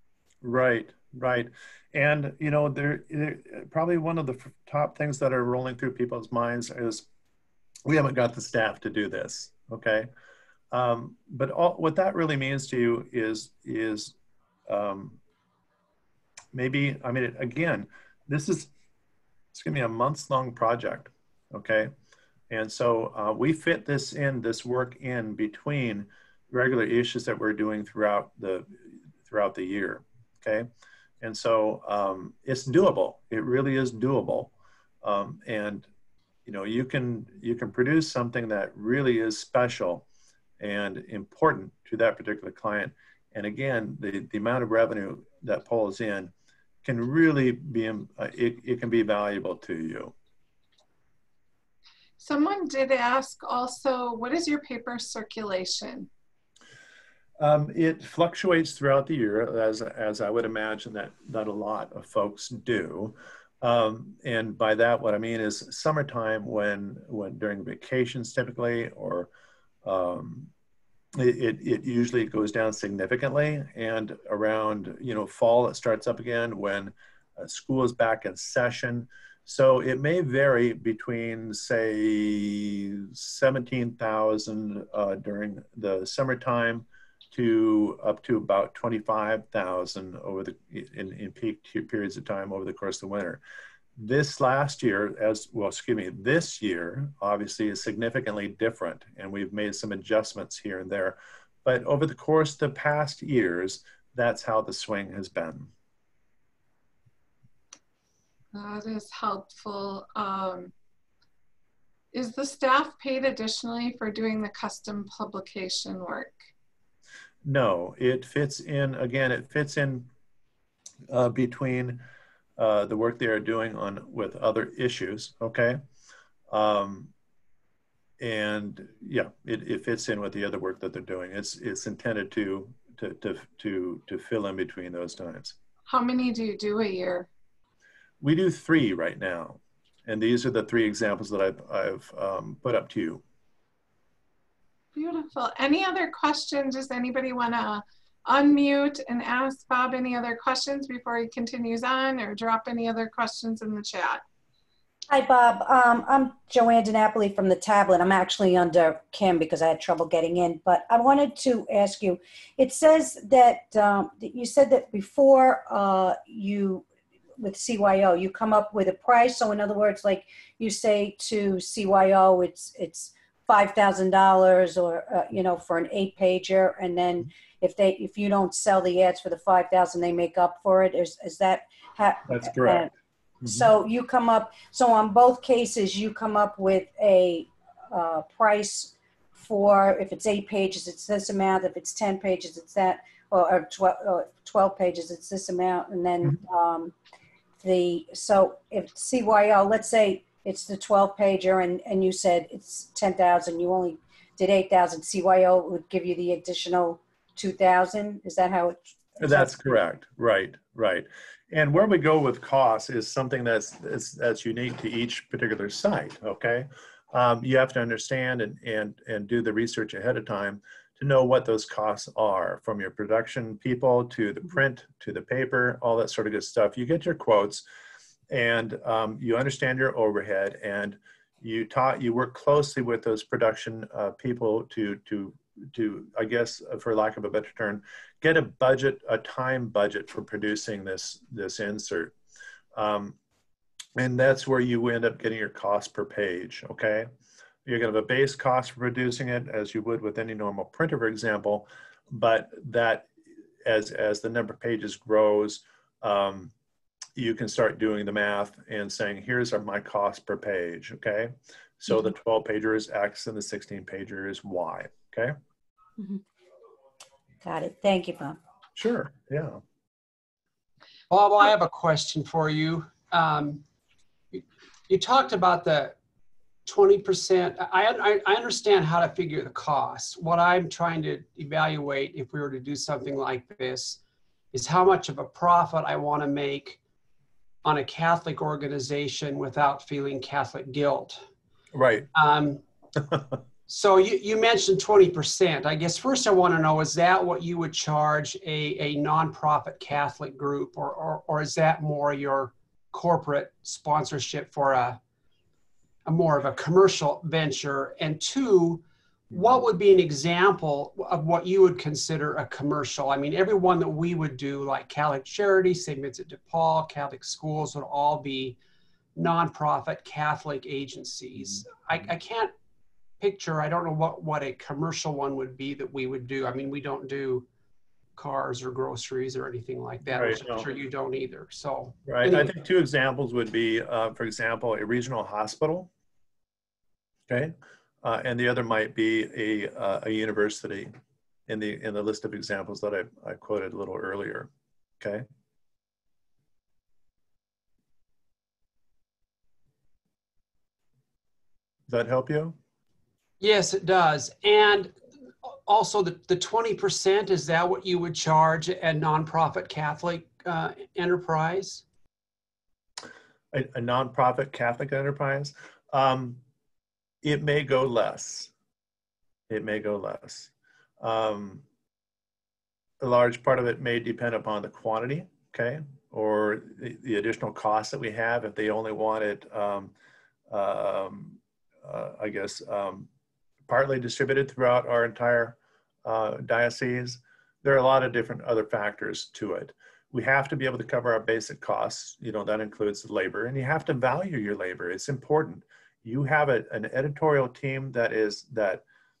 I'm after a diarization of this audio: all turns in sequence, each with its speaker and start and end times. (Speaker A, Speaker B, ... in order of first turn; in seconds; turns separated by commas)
Speaker A: 0.4-7.1, Speaker A: 7.8-10.1, Speaker A: 10.7-14.2, Speaker A: 14.7-15.2, Speaker A: 16.5-18.7, Speaker A: 19.5-21.9, Speaker A: 22.5-28.7, Speaker A: 29.2-30.7, Speaker A: 31.2-35.9, Speaker A: 36.5-40.0, Speaker A: 40.6-46.3, Speaker A: 46.8-50.1, Speaker B: 52.2-56.1, Speaker A: 57.4-69.3, Speaker A: 69.8-70.5, Speaker A: 71.2-93.4, Speaker A: 94.0-105.7, Speaker B: 108.5-110.7, Speaker B: 112.1-116.5, Speaker A: 117.4-120.1, Speaker A: 121.1-122.0, Speaker A: 122.6-125.8, Speaker A: 126.5-127.1, Speaker A: 128.2-135.6, Speaker B: 135.9-137.3, Speaker A: 138.2-143.2, Speaker B: 144.9-154.2, Speaker C: 155.1-166.8, Speaker C: 167.4-182.9, Speaker A: 182.3-182.9, Speaker A: 183.4-183.7, Speaker C: 183.4-196.9, Speaker C: 197.6-209.5, Speaker A: 209.2-227.6, Speaker A: 228.3-242.1, Speaker A: 242.8-243.2, Speaker A: 243.9-247.1, Speaker A: 247.6-253.1, Speaker A: 253.6-256.5, Speaker A: 257.1-265.3, Speaker C: 267.4-268.4, Speaker A: 268.8-269.6, Speaker D: 271.1-273.6, Speaker D: 274.3-276.0, Speaker D: 276.6-284.0, Speaker D: 284.5-286.8, Speaker D: 287.6-291.2, Speaker A: 291.7-292.1, Speaker D: 292.1-292.6, Speaker D: 293.7-305.0, Speaker D: 306.0-318.6, Speaker D: 319.1-322.5, Speaker D: 323.2-327.4, Speaker D: 328.1-332.5, Speaker A: 330.1-330.7, Speaker A: 332.1-335.9, Speaker A: 337.3-340.9, Speaker A: 341.5-345.3, Speaker A: 351.9-352.6, Speaker D: 353.4-361.8, Speaker A: 363.5-366.4, Speaker A: 367.2-368.5, Speaker A: 369.5-371.6, Speaker A: 373.0-379.9, Speaker A: 380.5-383.1, Speaker A: 383.7-398.8